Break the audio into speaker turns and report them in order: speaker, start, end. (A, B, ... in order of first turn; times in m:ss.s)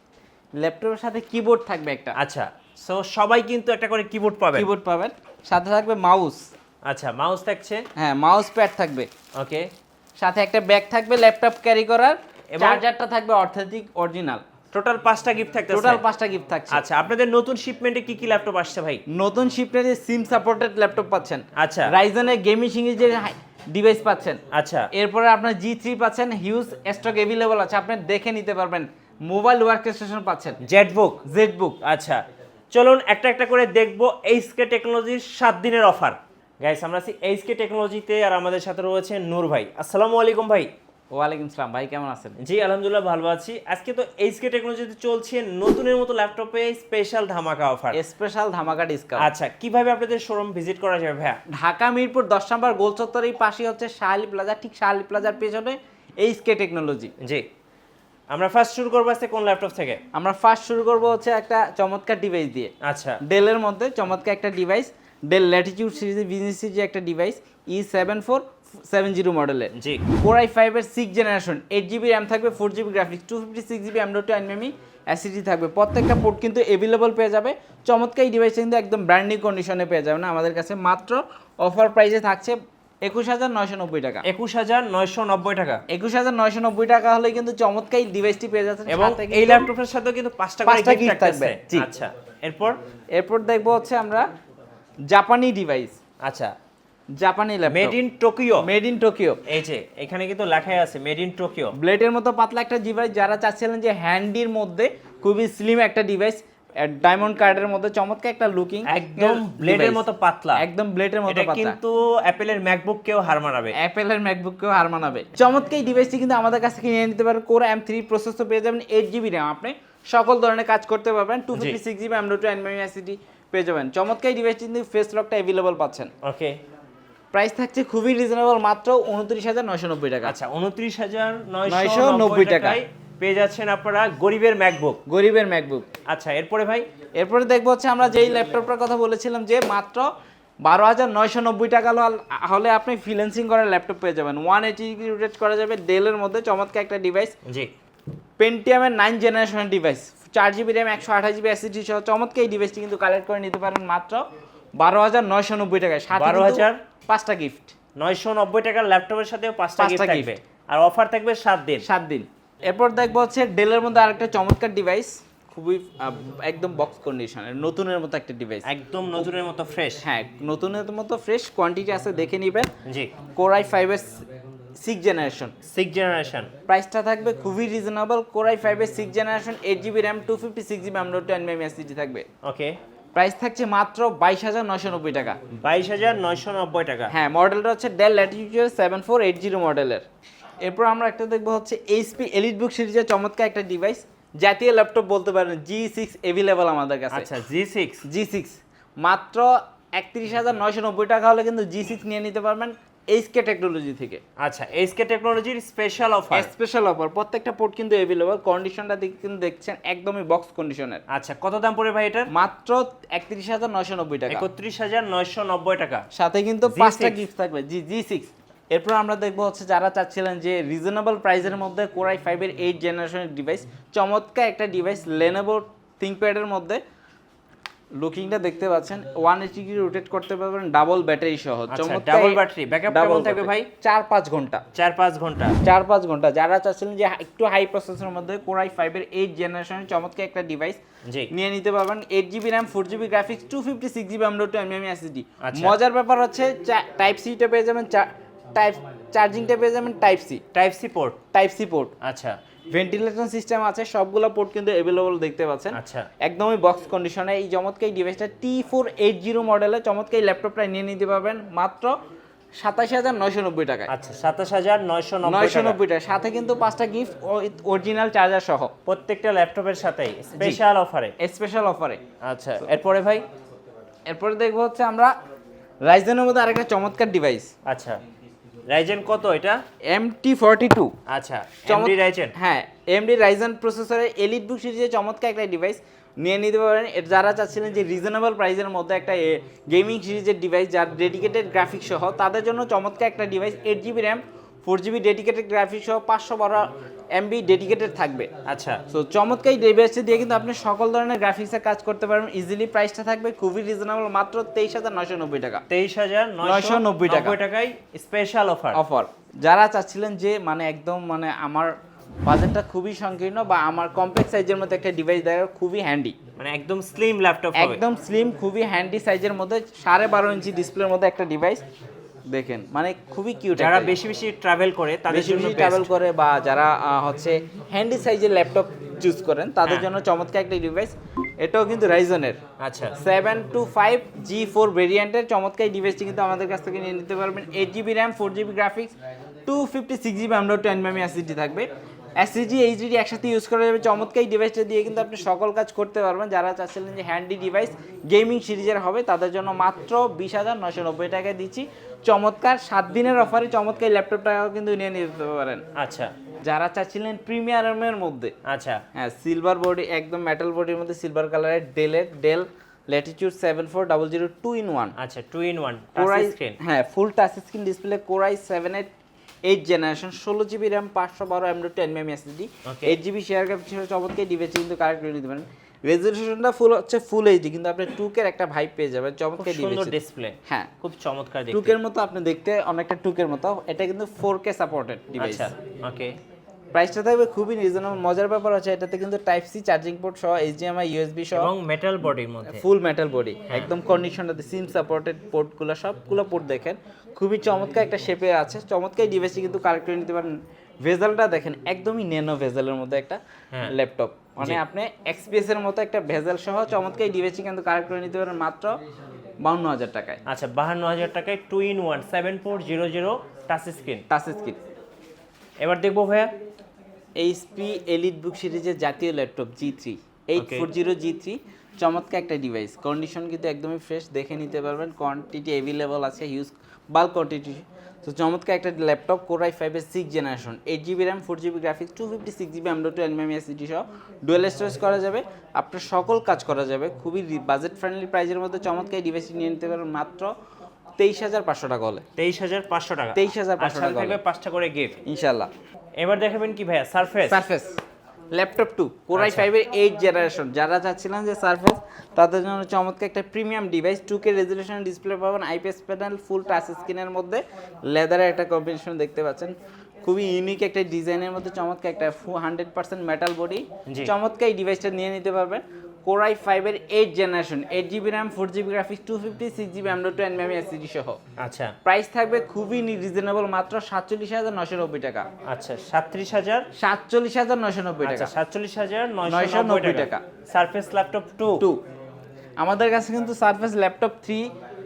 0:00.6-0:02.2 A
0:02.2-0:04.7 B
0:04.5-0:06.5 A
0:06.8-0:07.8 B
0:08.0-0:09.1 A
0:09.4-0:09.7 B
0:10.2-0:14.4 A
0:12.5-0:12.8 B
0:14.7-0:16.0 B
0:15.7-0:16.8 A
0:16.7-0:19.0 B
0:19.1-0:24.4 A
0:21.6-0:21.9 B
0:24.5-0:24.9 B
0:24.9-0:30.6 A
0:30.6-0:31.2 B
0:31.2-0:31.8 A
0:31.8-0:32.2 B
0:32.7-0:40.7 B
0:41.1-0:42.3 A
0:42.4-0:48.0 B
0:47.9-0:49.3 A
0:49.2-0:51.4 B
0:51.5-0:57.1 A
0:57.2-0:57.4 B
0:58.3-1:00.0 B
1:00.1-1:02.7 A
1:02.8-1:03.2 B
1:03.2-1:24.2 A
1:09.7-1:10.0 B
1:24.2-1:25.8 B
1:25.9-1:29.7 A
1:28.9-1:32.8 B
1:30.6-1:31.9 A
1:33.1-1:34.2 A
1:35.1-1:36.0 A
1:36.2-1:36.5 B
1:37.2-1:38.0 A
1:37.7-1:38.7 B
1:38.6-1:39.4 A
1:39.4-1:41.8 B
1:41.8-1:50.0 A
1:48.8-1:50.6 B
1:50.6-1:51.8 A
1:51.3-1:53.8 B
1:53.7-2:06.1 A
2:06.2-2:06.6 B
2:07.3-2:10.4 A
2:10.2-2:15.0 B
2:11.6-2:12.8 A
2:15.0-2:15.9 A
2:16.1-2:16.8 B
2:17.2-2:20.1 A
2:20.6-2:27.3 A
2:27.4-2:27.7 B
2:28.4-2:34.2 A
2:34.8-2:37.7 A
2:36.1-2:36.8 B
2:38.0-2:41.8 B
2:39.8-2:40.3 A
2:41.8-2:48.6 A
2:48.6-2:50.0 B
2:50.0-2:52.7 A
2:52.8-2:53.1 B
2:53.4-2:54.2 A
2:54.8-2:55.5 A
2:55.7-2:56.5 B
2:56.7-3:02.2 A
3:02.4-3:02.8 B
3:03.1-3:05.4 A
3:05.6-3:07.1 B
3:07.1-3:10.0 A
3:10.6-3:17.3 A
3:17.1-3:18.0 B
3:18.1-3:24.2 A
3:24.4-3:26.5 B
3:26.3-3:31.0 A
3:31.1-3:32.3 B
3:32.3-3:34.4 A
3:34.3-3:36.0 B
3:36.1-3:46.8 A
3:36.6-3:37.2 B
3:48.0-3:54.6 A
3:51.7-3:53.7 B
3:54.7-3:55.6 B
3:55.6-4:10.4 A
4:05.4-4:05.7 B
4:10.5-4:11.2 B
4:11.3-4:11.9 A
4:12.0-4:12.4 B
4:12.7-4:21.9 A
4:15.7-4:16.1 B
4:22.6-4:23.9 A
4:23.9-4:25.8 B
4:25.2-4:28.7 A
4:28.8-4:31.1 B
4:30.3-4:30.6 A
4:31.2-4:32.0 A
4:32.2-4:33.2 B
4:34.1-4:35.1 A
4:35.8-4:37.5 A
4:37.6-4:38.0 B
4:38.7-4:39.6 B
4:39.9-4:40.9 A
4:41.1-4:42.3 B
4:41.7-4:56.6 A
4:57.2-4:58.3 A
4:58.4-4:58.8 B
4:58.9-5:05.6 A
5:05.7-5:08.8 B
5:06.4-5:07.4 A
5:08.7-5:11.7 A
5:12.2-5:16.1 A
5:16.4-5:17.8 B
5:17.6-5:21.6 A
5:22.3-5:23.9 A
5:23.6-5:25.9 B
5:25.1-5:32.4 A
5:32.6-5:32.9 B
5:33.0-5:38.9 A
5:39.5-5:41.7 A
5:42.2-5:55.6 A
5:55.8-5:56.1 B
5:56.4-5:58.3 A
5:58.4-5:58.8 B
5:58.9-6:04.9 A
6:05.0-6:06.6 B
6:06.0-6:08.9 A
6:09.4-6:20.7 A
6:12.6-6:13.0 B
6:19.4-6:21.8 B
6:21.5-6:25.5 A
6:25.2-6:26.2 B
6:26.7-6:31.5 A
6:31.3-6:32.6 B
6:32.5-6:40.3 A
6:40.8-6:48.7 A
6:49.4-6:50.2 A
6:50.3-6:54.0 B
6:54.1-6:54.6 A
6:55.6-6:56.3 B
6:57.2-7:20.3 A
7:00.4-7:00.6 B
7:21.0-7:22.0 A
7:22.2-7:24.9 B
7:23.1-7:24.2 A
7:25.0-7:25.5 A
7:26.0-7:27.4 B
7:27.2-7:27.8 A
7:28.3-7:39.5 A
7:29.1-7:29.4 B
7:40.0-7:51.2 A
7:51.4-7:51.7 B
7:51.8-7:55.2 A
7:55.5-7:56.6 B
7:56.8-7:58.3 A
7:58.0-8:01.6 B
7:59.2-8:00.2 A
8:02.6-8:04.5 A